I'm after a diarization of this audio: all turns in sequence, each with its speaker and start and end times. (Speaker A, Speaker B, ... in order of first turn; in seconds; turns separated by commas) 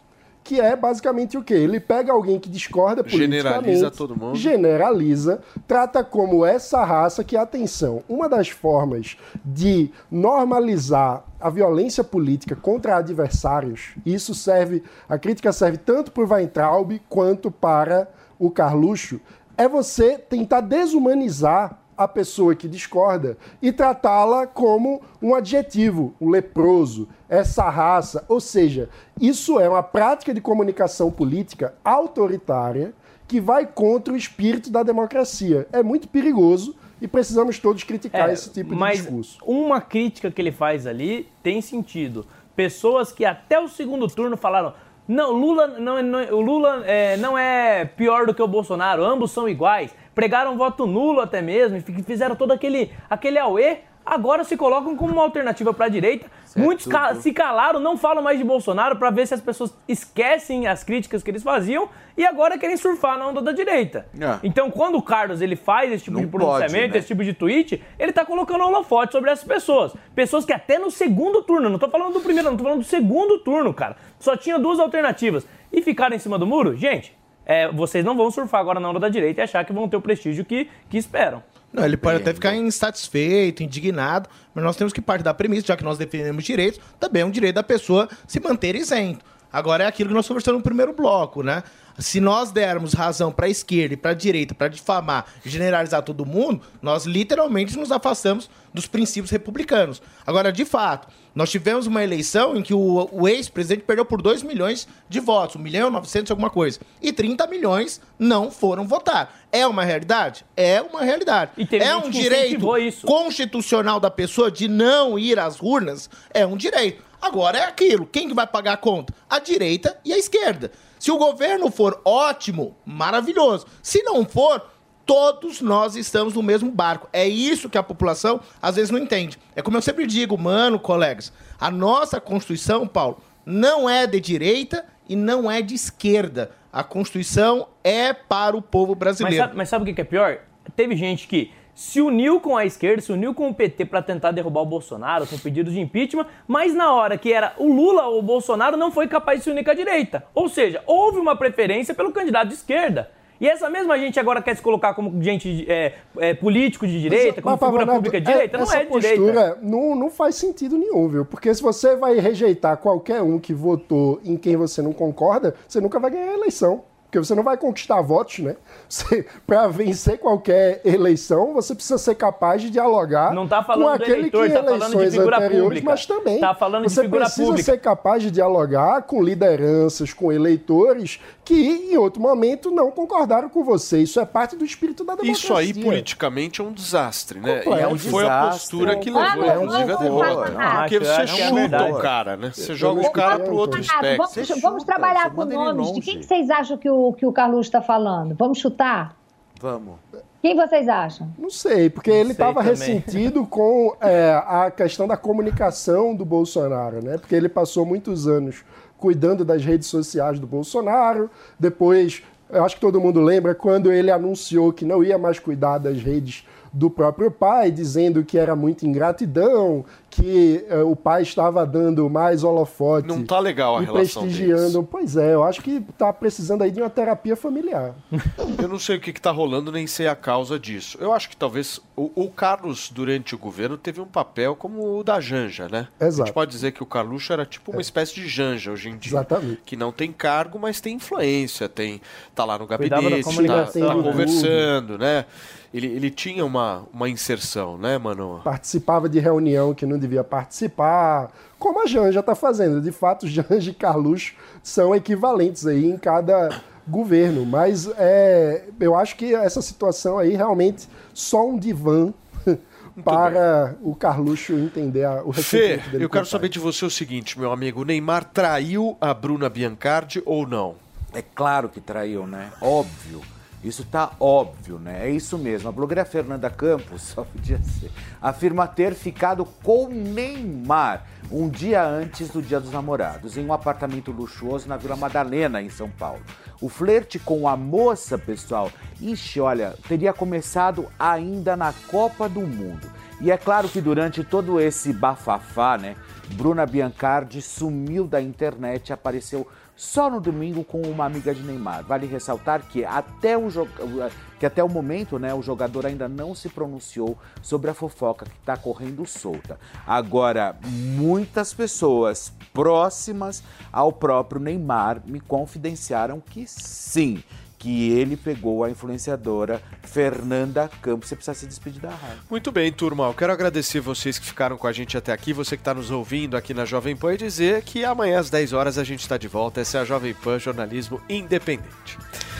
Speaker A: 0.4-39.4, Speaker B: 3.0-4.5, Speaker C: 38.1-81.4, Speaker D: 56.5-57.2, Speaker D: 64.1-64.4, Speaker D: 66.1-67.0, Speaker E: 81.7-139.5, Speaker D: 81.8-82.6, Speaker C: 111.5-113.1, Speaker C: 139.2-159.4, Speaker A: 157.1-186.1, Speaker C: 173.3-177.7, Speaker B: 185.2-194.4, Speaker D: 187.5-192.1, Speaker A: 187.7-188.2, Speaker F: 188.8-190.8, Speaker C: 190.6-192.0, Speaker A: 192.6-193.9, Speaker F: 193.0-199.1, Speaker D: 194.2-196.3, Speaker D: 199.6-200.0, Speaker F: 200.4-201.3, Speaker A: 201.4-228.0, Speaker C: 202.1-203.1, Speaker B: 223.0-224.8, Speaker B: 228.4-248.5, Speaker A: 236.0-236.4, Speaker A: 239.0-239.6, Speaker C: 242.8-244.3, Speaker A: 243.2-244.7, Speaker A: 248.4-266.5, Speaker B: 263.0-263.4, Speaker B: 265.3-270.8, Speaker D: 271.1-322.2, Speaker B: 322.3-332.0